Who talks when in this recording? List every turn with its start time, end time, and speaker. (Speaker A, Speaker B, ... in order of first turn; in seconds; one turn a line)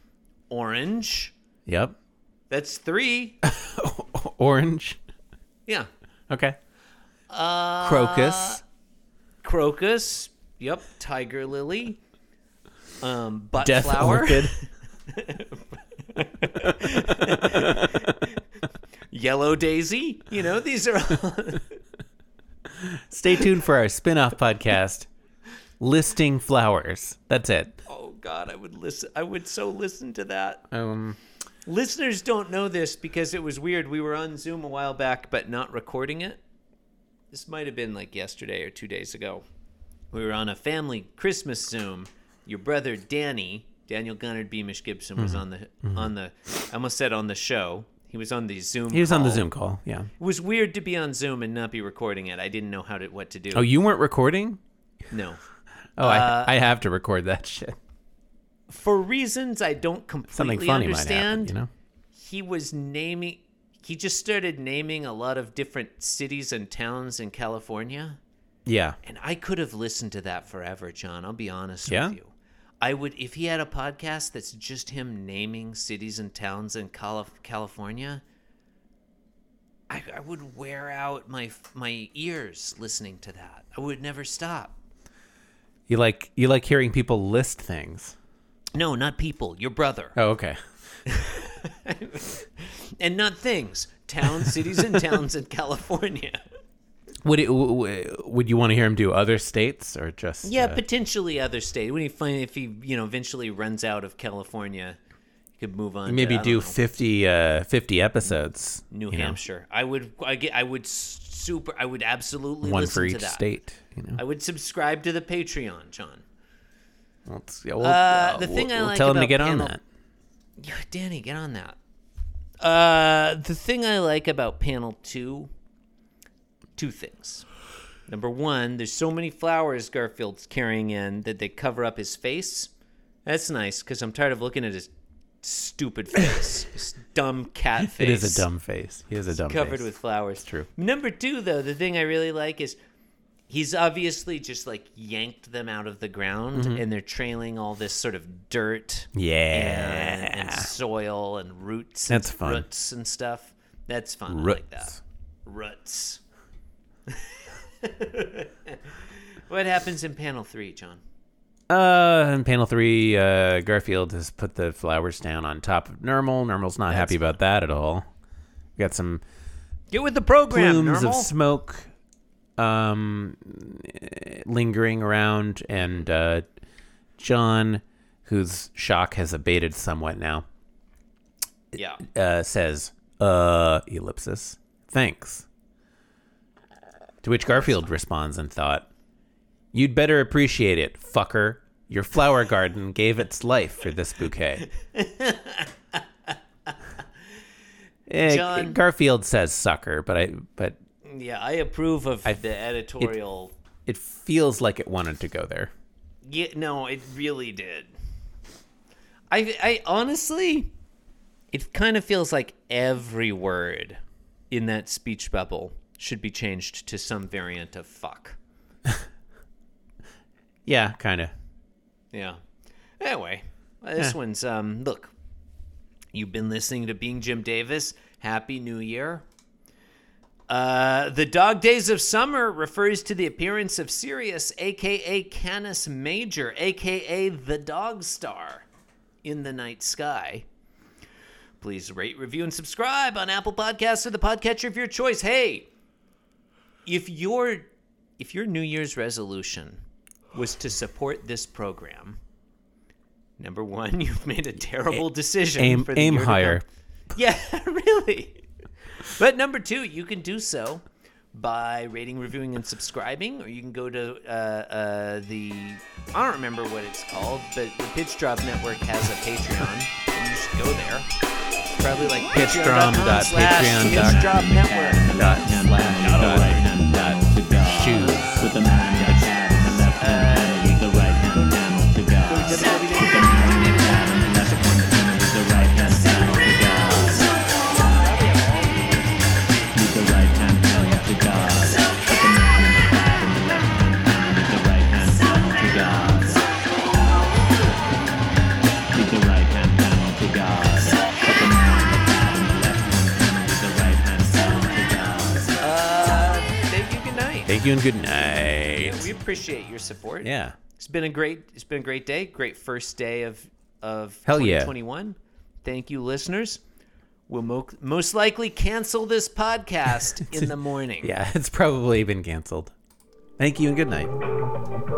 Speaker A: 0.5-1.3
Speaker B: 1.7-2.0
Speaker A: 2.5-3.4
Speaker B: 3.4-5.0
Speaker B: 6.3-6.6
Speaker A: 7.3-8.6
Speaker B: 7.8-8.6
Speaker A: 9.4-12.0
Speaker A: 13.0-18.4
Speaker B: 13.6-14.6
Speaker B: 17.5-18.0
Speaker A: 19.1-21.8
Speaker B: 22.7-25.1
Speaker B: 25.8-27.8
Speaker A: 27.9-30.6
Speaker B: 30.7-31.2
Speaker A: 31.7-36.4
Speaker A: 37.3-39.4
Speaker A: 40.1-49.5
Speaker B: 45.2-46.1
Speaker B: 48.9-50.1
Speaker A: 50.2-53.7
Speaker B: 53.5-54.6
Speaker A: 55.1-55.4
Speaker B: 56.0-57.8
Speaker A: 56.0-56.5
Speaker A: 58.7-61.5
Speaker B: 60.3-61.7
Speaker A: 62.2-68.2
Speaker B: 68.7-69.0
Speaker A: 69.0-78.2
Speaker B: 71.9-72.2
Speaker A: 79.9-84.8
Speaker B: 85.9-88.2
Speaker A: 88.8-90.2
Speaker B: 90.2-90.6
Speaker A: 91.1-96.4
Speaker B: 97.2-100.8
Speaker A: 100.4-105.0
Speaker A: 105.6-106.8
Speaker B: 106.1-109.4
Speaker A: 108.9-113.5
Speaker B: 112.6-114.2
Speaker A: 114.2-116.2
Speaker B: 117.3-119.8
Speaker A: 117.8-119.8
Speaker A: 120.6-121.8
Speaker A: 122.6-125.5
Speaker A: 126.8-127.5
Speaker A: 128.1-132.7
Speaker A: 133.2-134.9
Speaker A: 135.4-138.5
Speaker B: 137.9-140.7
Speaker A: 139.3-142.8
Speaker A: 143.5-156.2
Speaker B: 146.5-146.8
Speaker B: 149.2-150.7
Speaker B: 152.1-152.7
Speaker B: 154.3-155.0
Speaker A: 157.1-161.0
Speaker B: 161.7-168.1
Speaker A: 166.9-167.3
Speaker B: 168.8-169.2
Speaker A: 169.9-171.3
Speaker B: 170.5-171.9
Speaker B: 172.6-176.4
Speaker B: 177.2-180.5
Speaker B: 181.7-185.5
Speaker A: 181.8-182.0
Speaker B: 187.2-188.9
Speaker B: 189.7-194.7
Speaker A: 194.8-196.7
Speaker B: 198.1-200.8
Speaker A: 198.2-198.8
Speaker A: 201.0-203.5
Speaker B: 203.9-205.7
Speaker A: 206.2-207.9
Speaker A: 209.3-210.7
Speaker A: 211.5-214.0
Speaker A: 214.5-218.4
Speaker B: 220.7-221.3
Speaker A: 222.1-222.4
Speaker A: 223.0-225.1
Speaker A: 226.1-229.2
Speaker A: 230.5-238.7
Speaker A: 239.2-240.4
Speaker A: 241.6-245.7
Speaker A: 246.9-249.8
Speaker A: 250.3-252.2
Speaker A: 253.4-256.6
Speaker B: 255.6-256.6
Speaker A: 257.1-258.4
Speaker A: 259.1-271.1
Speaker A: 271.7-275.4
Speaker B: 272.3-274.5
Speaker C: 273.8-287.2
Speaker B: 275.1-278.4
Speaker A: 276.0-276.8
Speaker A: 277.9-281.5
Speaker A: 282.3-289.7
Speaker C: 289.7-296.4
Speaker A: 290.7-292.0
Speaker C: 298.9-305.5
Speaker A: 305.6-307.5
Speaker B: 307.5-309.1
Speaker A: 308.7-316.6
Speaker B: 310.2-310.6
Speaker B: 314.3-314.7
Speaker A: 317.3-321.1
Speaker B: 321.0-322.7
Speaker B: 323.4-324.1